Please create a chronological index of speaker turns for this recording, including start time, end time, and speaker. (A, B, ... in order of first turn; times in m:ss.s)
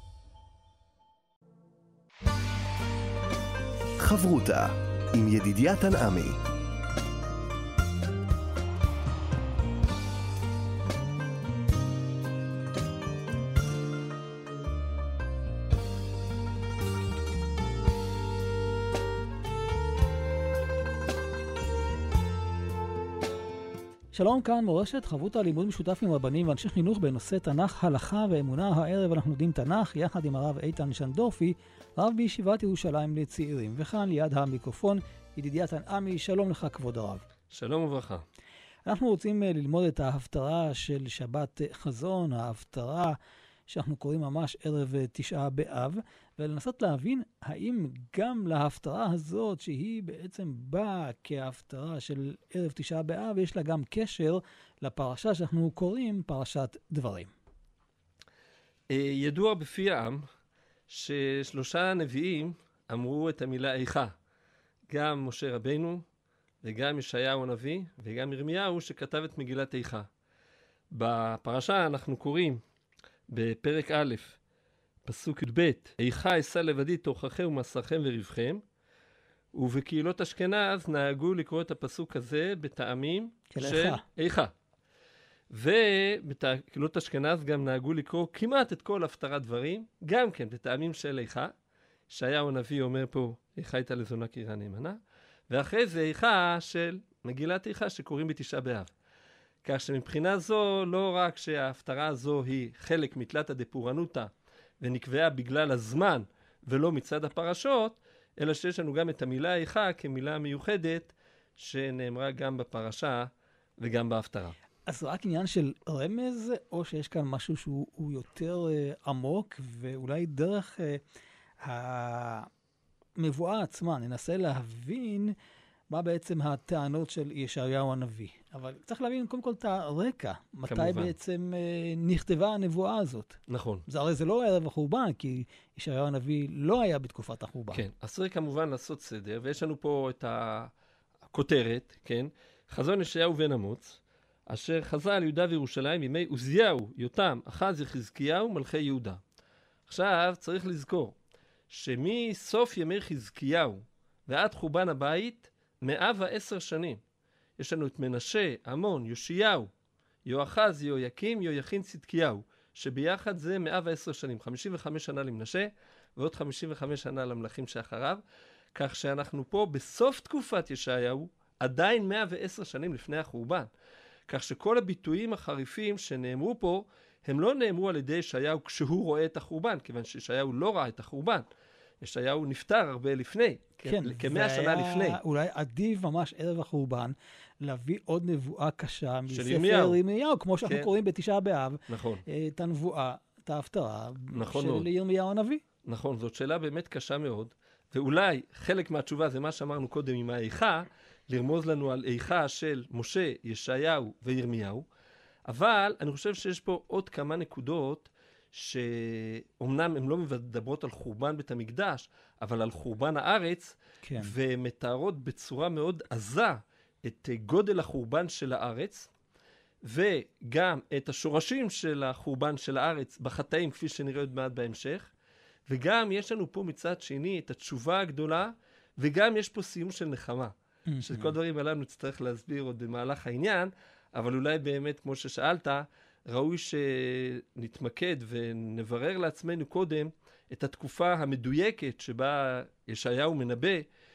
0:04.0-0:06.4 A
0:24.1-0:37.2 B
0:37.5-0:38.2 C
0:38.8-0:43.2 B
0:43.7-0:57.3 B
0:58.9-1:00.2 C
1:00.9-1:04.1 C
1:04.9-1:06.0 C
1:06.6-1:10.1 C
1:10.9-1:12.6 C
1:13.3-1:14.4 C
1:15.0-1:18.6 C
1:19.5-1:24.5 C
1:23.5-1:24.0 B
1:25.5-1:31.5 C
1:32.1-1:38.9 C
1:39.6-1:54.5 C
1:54.8-2:01.0 B
2:01.6-2:02.5 B
2:03.2-2:05.3 B
2:05.9-2:17.8 B
2:10.7-2:11.2 C
2:13.5-2:13.8 C
2:17.7-2:20.7 C
2:21.3-2:29.2 C
2:29.9-2:31.2 C
2:31.7-2:37.0 C
2:37.6-2:39.7 C
2:40.2-2:48.2 C
2:48.7-2:53.7 C
2:54.3-3:01.5 C
3:02.0-3:05.2 C
3:03.8-3:15.6 B
3:09.3-3:10.0 C
3:10.6-3:10.9 C
3:11.9-3:12.2 C
3:14.3-3:14.9 C
3:15.8-3:24.8 C
3:25.4-3:39.1 C
3:34.0-3:34.3 B
3:39.8-3:45.1 C
3:45.7-4:03.9 C
3:50.9-3:51.3 B